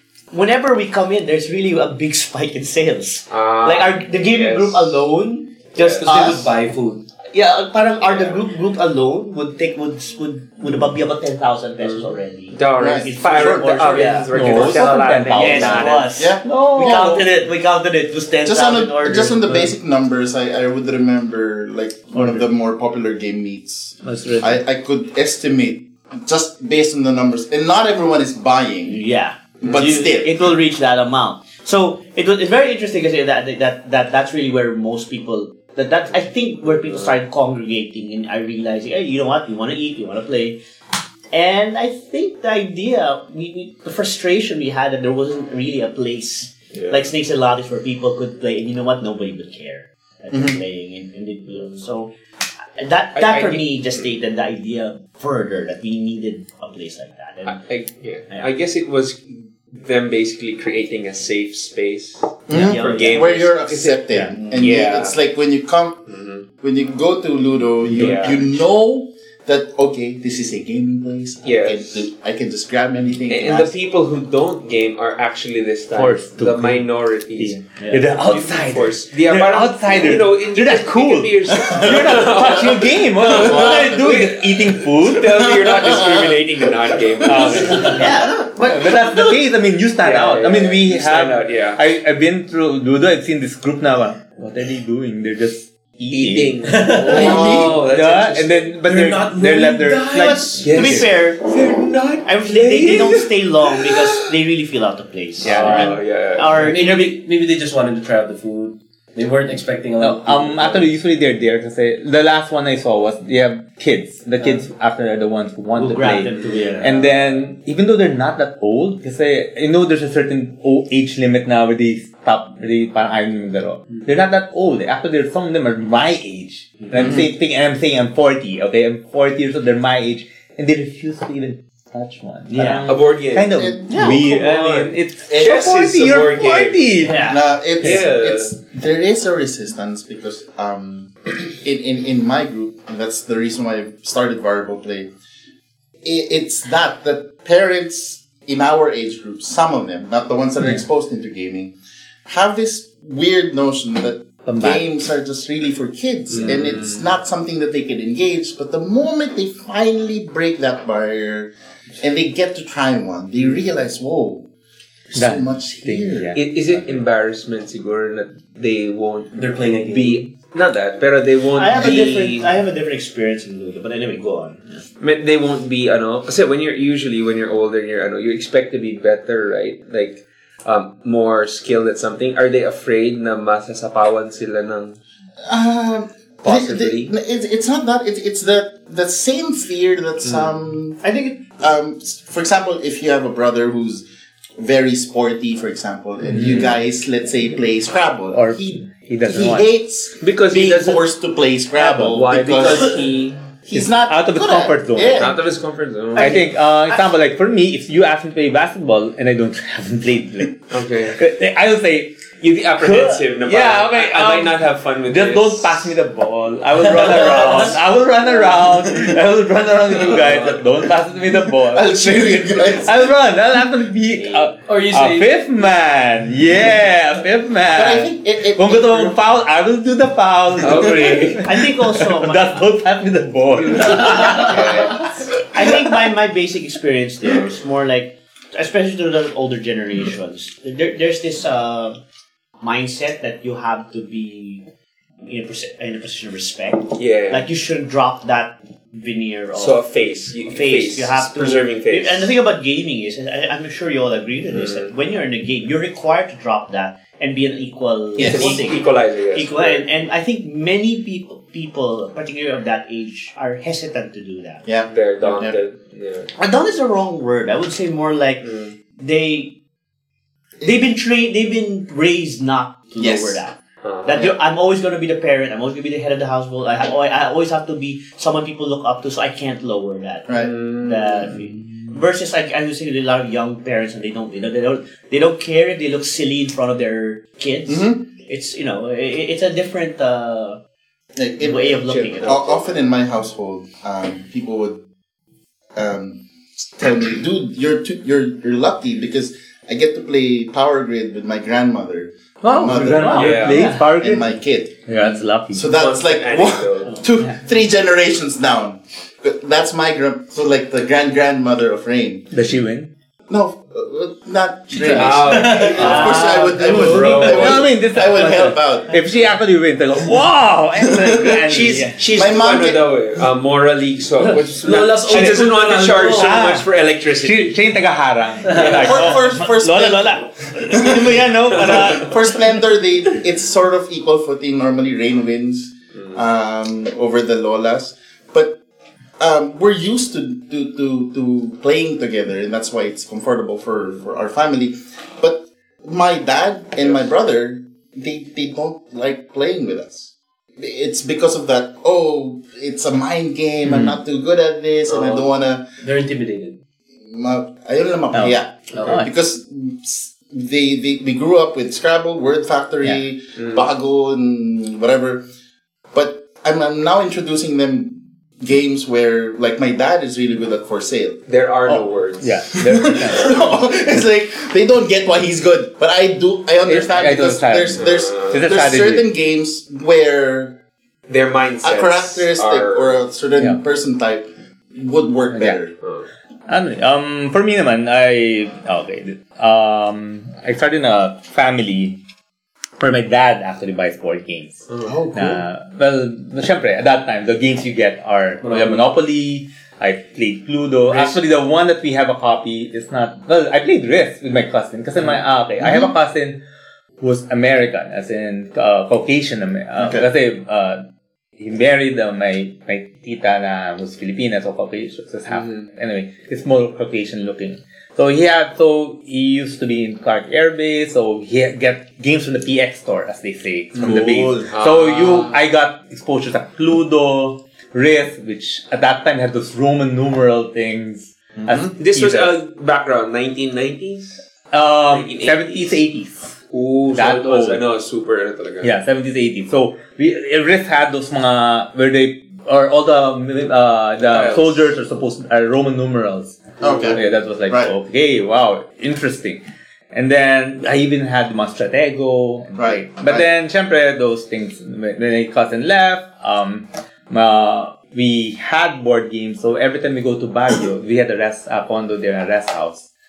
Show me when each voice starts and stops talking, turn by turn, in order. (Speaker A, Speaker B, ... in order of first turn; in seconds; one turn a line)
Speaker A: 0.3-6.5
Speaker B: 3.3-5.0
Speaker B: 5.7-6.4
Speaker C: 5.9-7.1
Speaker A: 7.3-19.7
Speaker B: 8.0-8.4
Speaker B: 11.8-16.1
Speaker D: 12.8-14.9
Speaker E: 14.3-17.3
Speaker D: 16.1-17.0
Speaker D: 18.4-29.0
Speaker A: 22.1-22.4
Speaker E: 24.0-24.6
Speaker A: 28.9-40.6
Speaker D: 29.6-30.3
Speaker A: 41.3-52.1
Speaker B: 46.7-47.0
Speaker D: 50.3-50.6
Speaker A: 52.8-57.6
Speaker B: 53.1-54.0
Speaker B: 57.5-65.2
Speaker D: 62.5-66.0
Speaker A: 62.5-63.3
Speaker A: 64.1-64.7
Speaker B: 66.1-66.5
Speaker D: 66.6-73.7
Speaker E: 67.9-68.6
Speaker B: 67.9-68.4
Speaker B: 71.4-72.1
Speaker B: 73.3-77.6
Speaker E: 75.9-76.8
Speaker E: 77.4-85.4
Speaker A: 77.8-78.1
Speaker B: 78.2-88.1
Speaker D: 81.7-82.0
Speaker D: 83.3-84.2
Speaker D: 85.4-87.6
Speaker E: 87.2-88.1
Speaker A: 87.7-89.4
Speaker E: 88.6-101.1
Speaker B: 90.0-91.8
Speaker B: 96.1-98.8
Speaker C: 96.6-97.6
Speaker D: 97.0-97.8
Speaker C: 98.8-100.7
Speaker A: 100.1-101.4
Speaker B: 100.6-104.1
Speaker A: 102.2-107.2
Speaker E: 105.4-106.0
Speaker B: 105.4-106.6
Speaker C: 106.5-110.9
Speaker E: 110.0-137.3
Speaker A: 115.8-117.1
Speaker C: 116.5-116.9
Speaker D: 126.9-127.3
Speaker A: 132.5-132.8
Speaker B: 132.8-137.1
Speaker D: 133.5-134.0
Speaker A: 133.8-134.3
Speaker A: 137.0-137.4
Speaker D: 137.3-145.1
Speaker B: 137.8-138.5
Speaker D: 146.0-151.7
Speaker D: 152.2-164.5
Speaker E: 154.4-154.8
Speaker B: 156.3-157.0
Speaker D: 165.1-166.4
Speaker E: 165.1-167.0
Speaker B: 166.3-172.5
Speaker C: 169.3-170.3
Speaker A: 171.6-174.8
Speaker B: 175.0-185.0
Speaker D: 185.4-194.0
Speaker B: 186.4-187.1
Speaker A: 191.0-191.4
Speaker D: 194.6-203.0
Speaker E: 196.3-196.7
Speaker E: 198.3-199.7
Speaker B: 200.2-201.1
Speaker E: 201.8-202.1
Speaker B: 201.9-203.4
Speaker D: 203.7-205.3
Speaker E: 203.7-205.4
Speaker B: 205.1-206.4
Speaker E: 206.2-210.6
Speaker A: 206.2-207.0
Speaker B: 210.7-211.2
Speaker E: 211.1-212.2
Speaker B: 212.4-215.8
Speaker E: 212.8-234.9
Speaker C: 217.0-217.6
Speaker D: 221.4-223.2
Speaker C: 224.6-225.3
Speaker D: 227.7-229.2
Speaker B: 230.6-231.5
Speaker A: 231.4-232.6
Speaker B: 233.6-235.1
Speaker A: 235.5-242.0
Speaker A: 242.6-244.6
Speaker A: 245.2-249.8
Speaker B: 246.9-247.5
Speaker B: 249.5-252.3
Speaker A: 250.4-264.6
Speaker B: 254.5-254.9
Speaker D: 258.2-258.6
Speaker B: 258.2-259.8
Speaker D: 264.6-265.6
Speaker B: 264.9-266.3
Speaker A: 266.4-268.5
Speaker B: 268.4-268.7
Speaker A: 269.0-269.5
Speaker A: 270.6-290.6
Speaker D: 273.0-273.4
Speaker B: 273.8-274.3
Speaker D: 280.3-280.5
Speaker B: 280.3-281.3
Speaker D: 287.7-288.0
Speaker D: 291.2-294.8
Speaker A: 291.4-292.6
Speaker B: 291.9-292.6
Speaker D: 295.7-296.2
Speaker D: 296.8-312.3
Speaker E: 302.4-304.4
Speaker B: 303.1-303.7
Speaker A: 303.1-303.8
Speaker E: 304.9-305.7
Speaker B: 305.7-307.0
Speaker E: 312.3-312.9
Speaker D: 313.3-318.9
Speaker B: 314.8-317.6
Speaker C: 315.2-316.1
Speaker A: 315.6-317.5
Speaker E: 315.9-316.2
Speaker E: 316.8-322.0
Speaker C: 316.8-317.2
Speaker D: 320.8-322.9
Speaker B: 321.6-327.6
Speaker C: 324.2-326.4
Speaker E: 325.1-325.5
Speaker E: 326.1-326.7
Speaker E: 327.2-332.1
Speaker B: 328.5-329.1
Speaker D: 328.6-338.6
Speaker D: 339.2-355.7
Speaker E: 353.6-354.0
Speaker C: 354.9-355.3
Speaker C: 355.8-356.6
Speaker D: 357.0-365.2
Speaker E: 358.1-359.1
Speaker B: 363.4-363.6
Speaker D: 365.9-371.8
Speaker B: 371.3-372.4
Speaker E: 372.2-373.5
Speaker D: 372.6-380.6
Speaker E: 376.6-379.1
Speaker B: 377.8-378.4
Speaker B: 381.1-383.0
Speaker D: 381.6-385.7
Speaker E: 385.3-385.6
Speaker E: 386.5-392.0
Speaker E: 392.8-406.4
Speaker D: 394.8-395.4
Speaker C: 398.4-398.9
Speaker D: 405.6-405.9
Speaker E: 407.0-410.8
Speaker D: 409.8-410.1
Speaker E: 411.4-432.4
Speaker B: 415.3-415.6
Speaker D: 423.8-424.5
Speaker B: 424.5-425.4
Speaker D: 431.4-431.7
Speaker B: 431.8-434.2
Speaker E: 434.5-436.3
Speaker B: 434.9-435.8
Speaker B: 436.5-438.7
Speaker E: 436.9-437.6
Speaker E: 438.6-449.4
Speaker B: 444.0-444.6
Speaker D: 446.6-447.7
Speaker B: 446.6-446.9
Speaker E: 449.9-462.9
Speaker D: 452.5-453.3